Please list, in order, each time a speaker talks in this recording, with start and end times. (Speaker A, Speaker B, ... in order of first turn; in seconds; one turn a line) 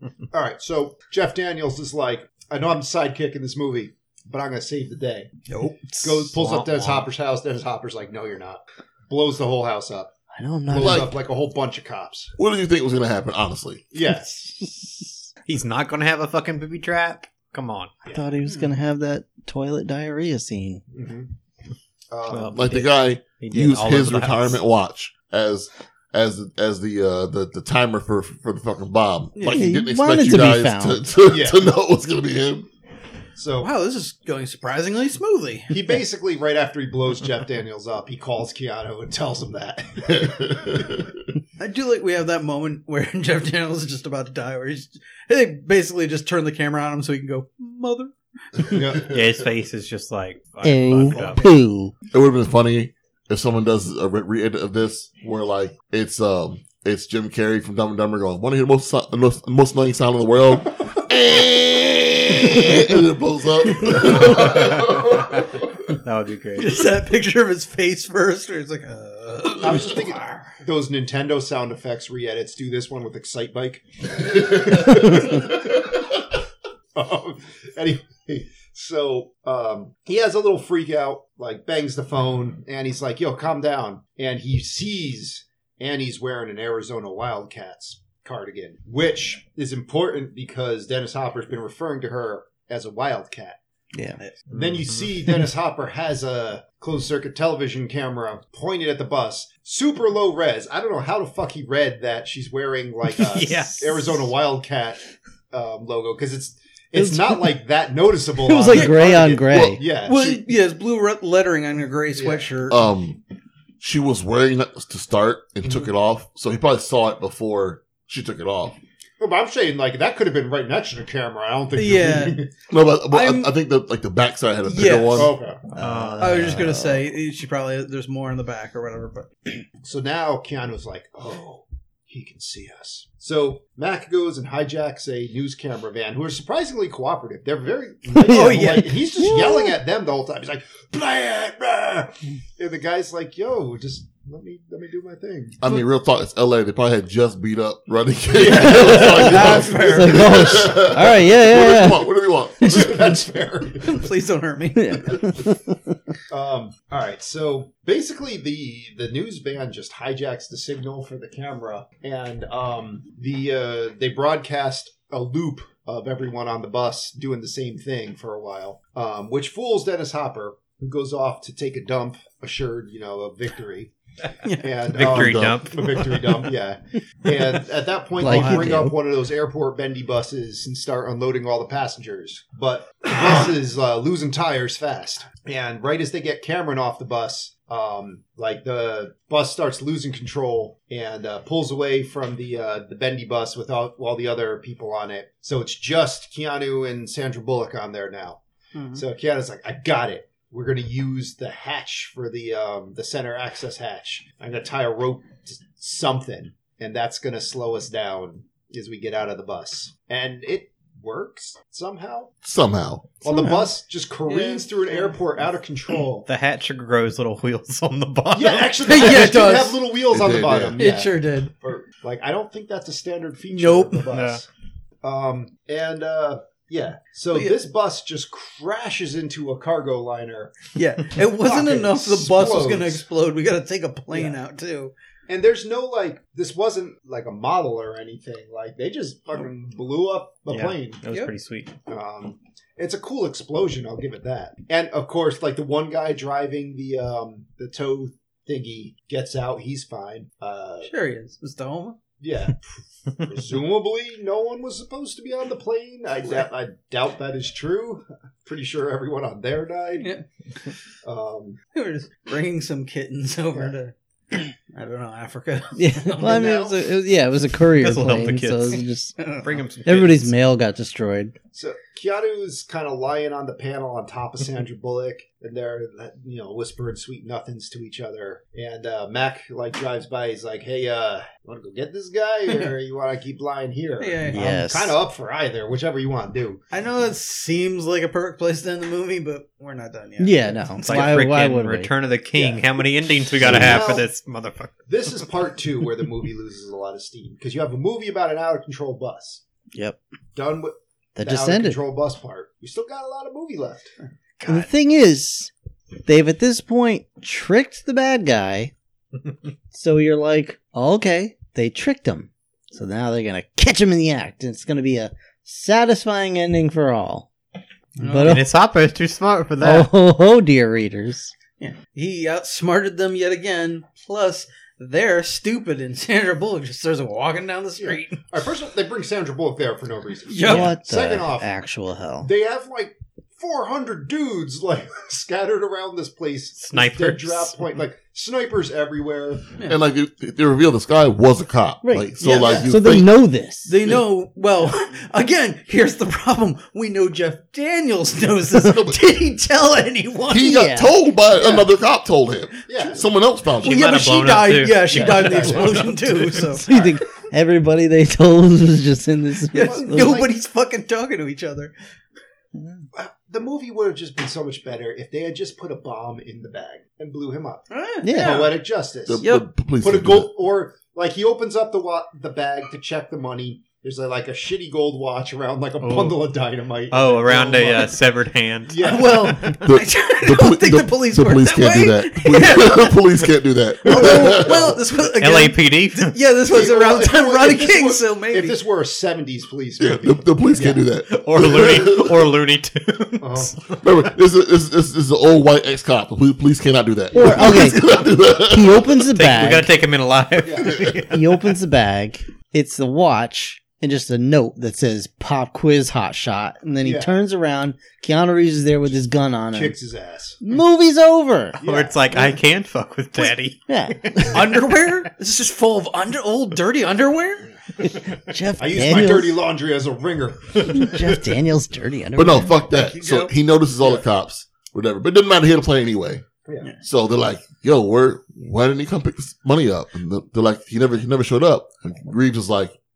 Speaker A: 0.3-5.3
Speaker B: 5.5-6.0
Speaker A: 6.0-10.1
Speaker C: 6.3-7.1
Speaker D: 10.3-11.1
Speaker A: 10.7-12.3
Speaker E: 10.8-11.1
Speaker E: 12.4-13.8
Speaker A: 13.9-14.4
Speaker C: 15.5-17.9
Speaker D: 18.1-20.8
Speaker A: 20.9-21.3
Speaker A: 22.1-22.7
Speaker C: 22.3-24.6
Speaker E: 22.5-32.7
Speaker B: 29.4-29.7
Speaker D: 29.5-31.1
Speaker A: 31.3-31.7
Speaker A: 33.4-33.7
Speaker B: 33.6-36.0
Speaker A: 35.7-41.0
Speaker E: 40.5-40.9
Speaker B: 41.6-48.1
Speaker A: 48.7-49.1
Speaker C: 49.0-51.5
Speaker D: 50.6-51.9
Speaker A: 51.1-51.5
Speaker E: 52.1-65.4
Speaker C: 64.1-66.8
Speaker B: 66.6-70.1
Speaker A: 69.6-75.9
Speaker A: 77.0-93.6
Speaker D: 93.9-94.2
Speaker C: 94.5-95.1
Speaker A: 94.5-110.2
Speaker B: 103.2-104.3
Speaker D: 106.9-107.6
Speaker D: 108.4-109.8
Speaker B: 108.7-109.1
Speaker E: 109.3-110.5
Speaker B: 110.1-112.8
Speaker A: 112.2-112.5
Speaker E: 112.7-113.2
Speaker E: 113.8-118.8
Speaker A: 119.2-122.5
Speaker B: 121.8-122.4
Speaker E: 122.7-125.3
Speaker B: 123.1-123.5
Speaker B: 124.7-125.3
Speaker A: 125.2-125.7
Speaker C: 125.8-126.7
Speaker D: 125.8-127.0
Speaker B: 126.2-129.6
Speaker A: 129.8-145.6
Speaker D: 138.1-139.8
Speaker B: 138.3-138.9
Speaker E: 145.6-153.0
Speaker A: 148.4-150.1
Speaker B: 148.4-150.4
Speaker D: 148.7-152.1
Speaker A: 152.6-154.0
Speaker D: 152.8-153.1
Speaker B: 153.8-155.2
Speaker D: 154.8-155.8
Speaker A: 156.3-173.9
Speaker B: 174.4-174.7
Speaker A: 174.6-198.4
Speaker E: 174.9-175.7
Speaker C: 174.9-176.3
Speaker D: 178.2-179.0
Speaker B: 178.2-178.9
Speaker B: 198.8-199.0
Speaker A: 198.9-212.3
Speaker E: 212.4-213.2
Speaker A: 213.2-216.3
Speaker D: 213.3-213.7
Speaker B: 214.3-215.2
Speaker C: 216.3-219.2
Speaker A: 218.3-224.4
Speaker B: 218.8-219.9
Speaker E: 220.1-220.8
Speaker B: 220.8-221.5
Speaker B: 223.5-224.0
Speaker C: 224.1-224.4
Speaker A: 225.0-230.6
Speaker B: 227.3-227.6
Speaker B: 230.8-234.9
Speaker A: 231.2-233.1
Speaker A: 235.3-241.0
Speaker C: 240.5-241.8
Speaker A: 241.9-250.9
Speaker B: 250.8-252.0
Speaker A: 252.2-260.1
Speaker B: 260.0-260.2
Speaker A: 261.0-261.6
Speaker B: 261.7-263.9
Speaker B: 264.7-266.8
Speaker D: 265.8-269.2
Speaker A: 266.2-266.7
Speaker C: 267.8-268.9
Speaker B: 269.2-269.6
Speaker C: 269.4-270.3
Speaker D: 269.9-271.4
Speaker A: 271.5-286.6
Speaker B: 284.0-284.4
Speaker D: 284.3-285.0
Speaker B: 286.7-291.2
Speaker D: 290.2-291.9
Speaker C: 290.8-294.8
Speaker A: 292.3-292.7
Speaker A: 293.3-294.1
Speaker D: 293.5-293.8
Speaker A: 294.9-299.4
Speaker D: 299.7-300.0
Speaker A: 300.4-303.9
Speaker D: 301.2-301.8
Speaker B: 304.4-304.7
Speaker D: 304.4-305.5
Speaker D: 306.1-308.7
Speaker D: 309.7-317.3
Speaker B: 318.0-318.4
Speaker D: 318.0-318.5
Speaker C: 318.2-319.9
Speaker D: 319.6-321.3
Speaker B: 321.6-328.3
Speaker A: 328.3-331.5
Speaker B: 330.3-330.7
Speaker D: 330.4-332.3
Speaker A: 332.2-339.5
Speaker C: 336.6-337.6
Speaker E: 339.7-343.1
Speaker D: 341.8-343.8
Speaker B: 342.2-342.6
Speaker A: 342.2-342.7
Speaker B: 343.7-350.5
Speaker E: 348.6-349.0
Speaker E: 350.3-353.9
Speaker D: 350.4-350.9
Speaker A: 352.7-353.1
Speaker C: 353.6-356.6
Speaker B: 353.6-356.9
Speaker A: 354.9-355.9
Speaker D: 356.6-360.2
Speaker B: 359.5-361.7
Speaker A: 359.6-360.3
Speaker D: 362.6-362.8
Speaker A: 362.9-369.3
Speaker B: 367.7-368.6
Speaker D: 368.0-368.5
Speaker E: 369.1-370.3
Speaker A: 369.8-378.0
Speaker C: 375.8-376.2
Speaker C: 376.9-379.6
Speaker A: 378.7-379.6
Speaker B: 378.8-383.3
Speaker E: 379.6-384.8
Speaker B: 383.8-388.6
Speaker A: 383.9-384.8
Speaker C: 385.2-386.2
Speaker A: 386.4-390.8
Speaker E: 389.8-392.3
Speaker C: 391.1-393.6
Speaker A: 393.2-393.8
Speaker E: 393.8-399.0
Speaker D: 397.1-397.8
Speaker D: 398.4-399.7
Speaker C: 399.1-401.3
Speaker A: 400.4-400.9
Speaker D: 401.1-409.8
Speaker A: 406.8-407.2
Speaker A: 409.5-410.4
Speaker D: 410.4-411.6
Speaker C: 411.6-414.7
Speaker A: 411.6-412.4
Speaker D: 413.7-414.4
Speaker B: 414.3-417.5
Speaker D: 417.9-419.4
Speaker A: 418.6-421.4
Speaker D: 420.6-422.6
Speaker E: 422.2-426.2
Speaker B: 422.8-423.3
Speaker A: 426.5-426.7
Speaker E: 426.8-432.8